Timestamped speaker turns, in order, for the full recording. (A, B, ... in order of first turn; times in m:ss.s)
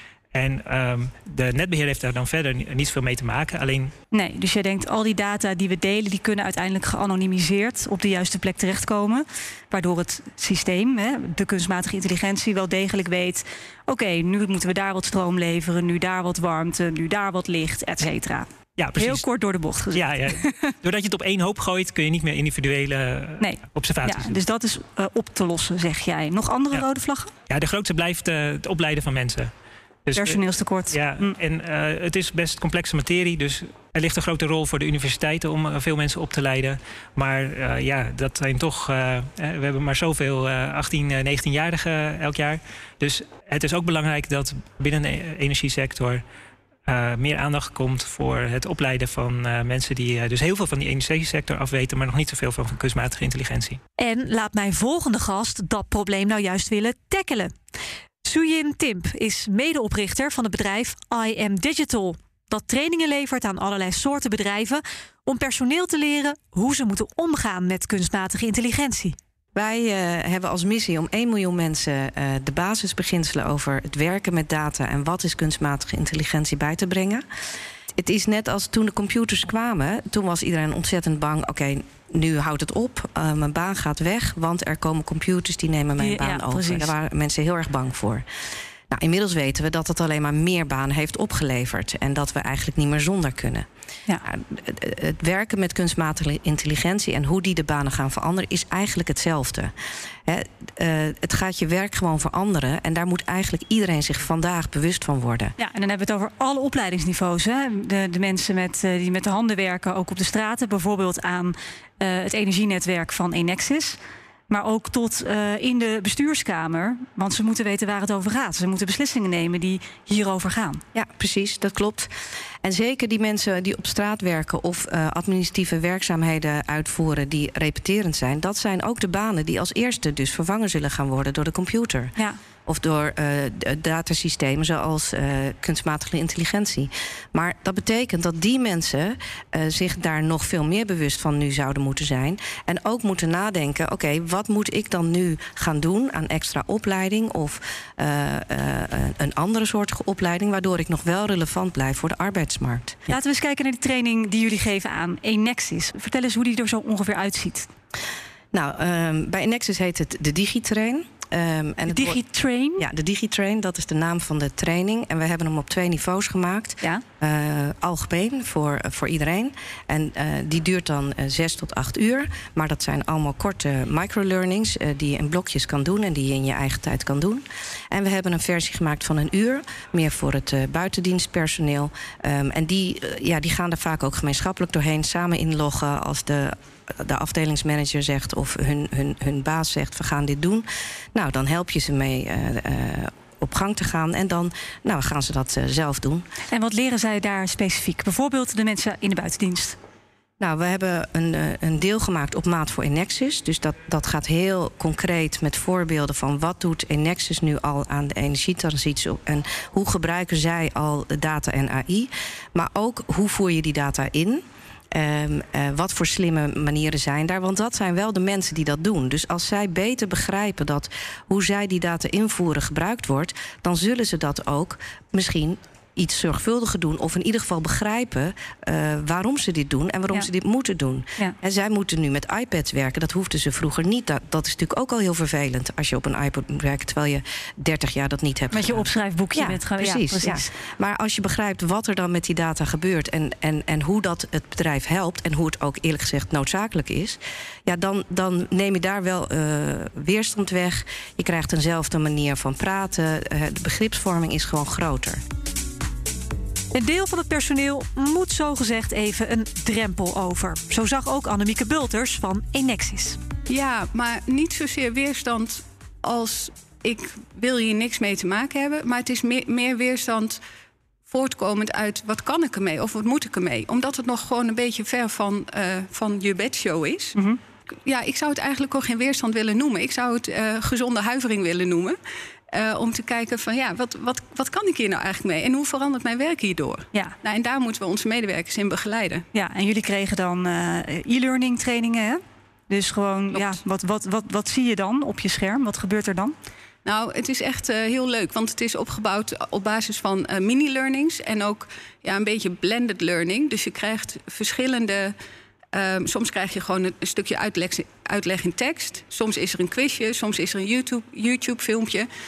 0:00.3-0:03.9 A
0:04.1-0:20.7 B
0:18.8-0:19.3 A
0:19.9-0:24.4 A
0:23.4-0:27.3 B
0:27.5-0:29.5 A
0:30.0-0:46.2 A
0:30.2-0:31.3 B
0:46.9-0:53.8 A
0:54.0-0:57.5 B
0:58.2-1:09.2 B
1:09.6-1:17.2 C
1:18.0-1:28.2 C
1:26.0-1:26.9 B
1:28.9-1:33.7 C
1:34.2-1:39.7 C
1:40.3-1:45.6 C
1:45.6-1:54.0 B
1:54.5-2:00.8 B
2:00.9-2:02.1 C
2:02.6-2:12.1 C
2:12.7-2:33.0 C
2:33.1-2:37.7 B
2:38.5-2:42.2 C
2:41.9-2:42.8 B
2:42.8-3:16.2 C
3:16.5-3:19.8 B
3:20.4-3:34.4 C
3:34.9-4:15.2 C
3:58.5-4:00.5 B
4:16.7-4:23.2 B
4:23.5-4:30.4 D
4:31.1-4:37.2 D
4:37.9-4:42.0 D
4:42.5-4:49.2 D
4:49.3-4:56.3 B
4:56.8-5:05.2 D
5:05.7-5:12.1 D